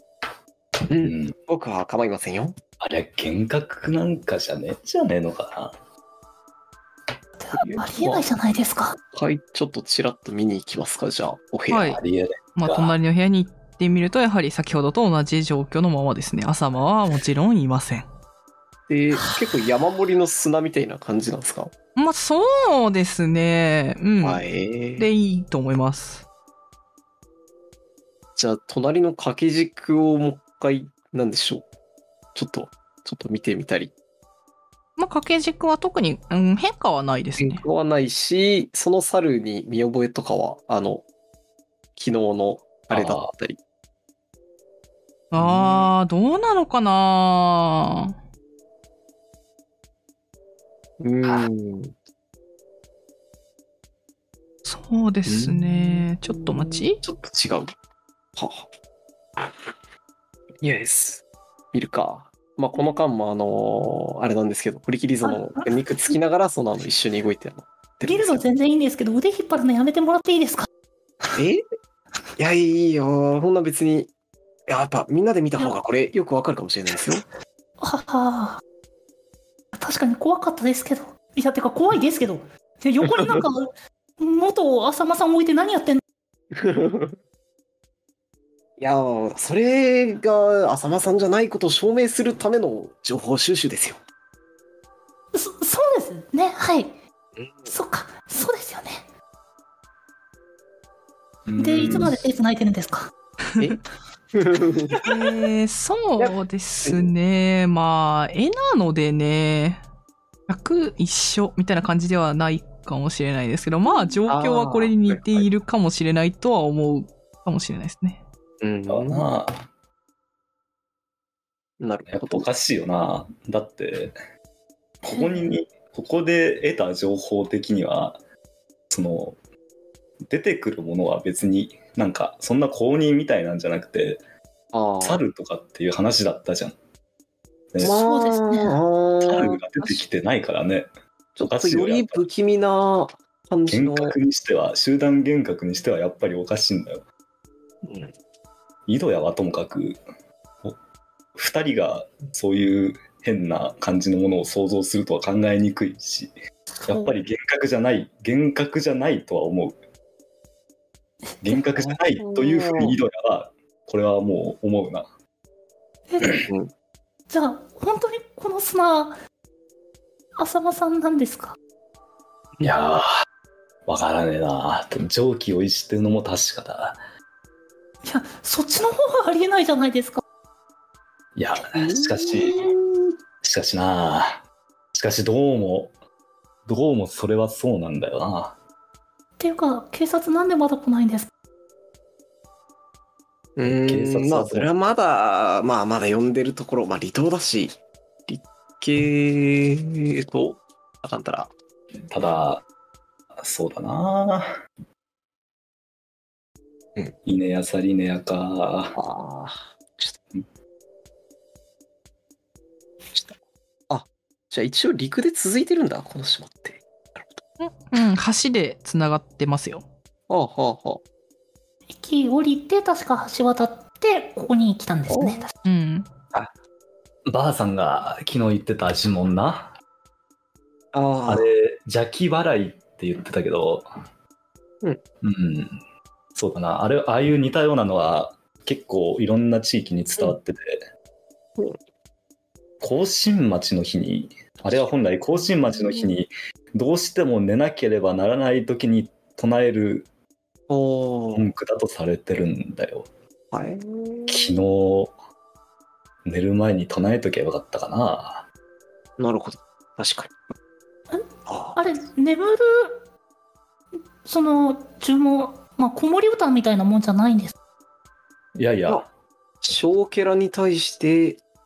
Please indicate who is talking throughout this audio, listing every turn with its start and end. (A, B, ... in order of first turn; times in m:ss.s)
0:00.9-0:02.6 A
0:01.0-0:01.4 B
0:02.8-0:05.7 B
0:07.4-0:09.0 C
0:07.6-0:08.2 A
0:09.1-0:12.0 A
0:11.7-0:12.0 D
0:11.9-0:13.0 B
0:12.6-0:18.1 D
0:18.9-0:21.7 A
0:22.0-0:24.4 D
0:24.2-0:25.1 A
0:25.0-0:26.2 D
0:28.4-0:31.6 A
0:32.3-0:33.9 A
0:35.0-0:37.6 D
0:37.4-0:41.0 A
0:42.0-0:43.6 A
0:42.9-0:43.3 B
0:45.3-0:48.2 D
0:45.4-0:45.9 A
0:51.0-0:51.9 A
0:54.6-0:57.0 D
0:55.2-0:57.7 A
0:58.4-0:58.7 A
1:00.6-1:08.4 A
1:05.2-1:06.1 C
1:08.0-1:10.7 C
1:11.4-1:11.6 A
1:12.4-1:14.1 A
1:14.7-1:17.2 A
1:17.8-1:18.6 C
1:19.7-1:26.0 C
1:23.1-1:23.4 A
1:26.5-1:27.2 A
1:28.8-1:34.0 A
1:35.3-1:37.0 C
1:37.4-1:37.7 A
1:37.7-1:39.0 C
1:41.4-1:42.3 B
1:41.6-1:43.1 C
1:44.3-1:45.4 A
1:45.0-1:49.8 D
1:46.2-1:47.1 A
1:50.5-1:58.2 D
1:54.3-1:55.4 A
1:58.6-1:59.2 A
1:58.9-1:59.7 B
2:01.8-2:02.5 A
2:02.1-2:04.1 B
2:05.0-2:08.2 B
2:05.1-2:05.4 C
2:08.9-2:09.4 B
2:10.3-2:14.2 B
2:14.7-2:15.2 A
2:15.0-2:16.7 B
2:17.8-2:19.9 A
2:17.8-2:18.8 C
2:19.2-2:20.9 B
2:21.4-2:24.2 A
2:21.4-2:22.2 B
2:23.7-2:27.0 B
2:27.8-2:28.1 A
2:28.9-2:30.0 B
2:31.3-2:36.3 B
2:36.8-2:37.1 C
2:36.9-2:39.8 B
2:41.3-2:41.6 C
2:41.4-2:45.1 B
2:41.8-2:43.0 A
2:46.1-2:46.4 C
2:46.4-2:46.7 A
2:47.3-2:49.2 C
2:50.4-2:51.6 C
2:52.6-2:53.1 B
2:53.9-2:57.0 B
2:58.0-3:00.2 C
3:01.4-3:02.6 B
3:01.6-3:03.1 A
3:02.4-3:02.7 C
3:03.4-3:05.9 B
3:06.7-3:08.6 B
3:09.4-3:11.3 C
3:13.6-3:17.8 A
3:13.6-3:14.9 B
3:18.3-3:21.5 A
3:22.1-3:22.6 B
3:23.4-3:24.5 B
3:27.2-3:28.9 B
3:28.9-3:30.1 A
3:33.1-3:33.4 A
3:33.9-3:37.2 A
3:37.6-3:39.8 D
3:40.3-3:41.0 A
3:41.9-3:45.5 C
3:45.1-3:45.4 A
3:45.6-3:46.1 D
3:47.3-3:49.7 B
3:50.9-3:51.5 A
3:51.3-3:53.9 B
3:55.2-3:55.8 B
3:56.3-4:00.8 B
4:02.8-4:10.1 B
4:05.4-4:06.2 A
4:10.7-4:11.4 A
4:11.3-4:13.1 B
4:13.5-4:14.6 A
4:14.3-4:15.1 B
4:16.2-4:18.4 B
4:19.2-4:20.4 A
4:21.1-4:23.0 C
4:21.5-4:21.8 A
4:24.2-4:27.5 C
4:28.6-4:29.1 B
4:29.6-4:31.4 A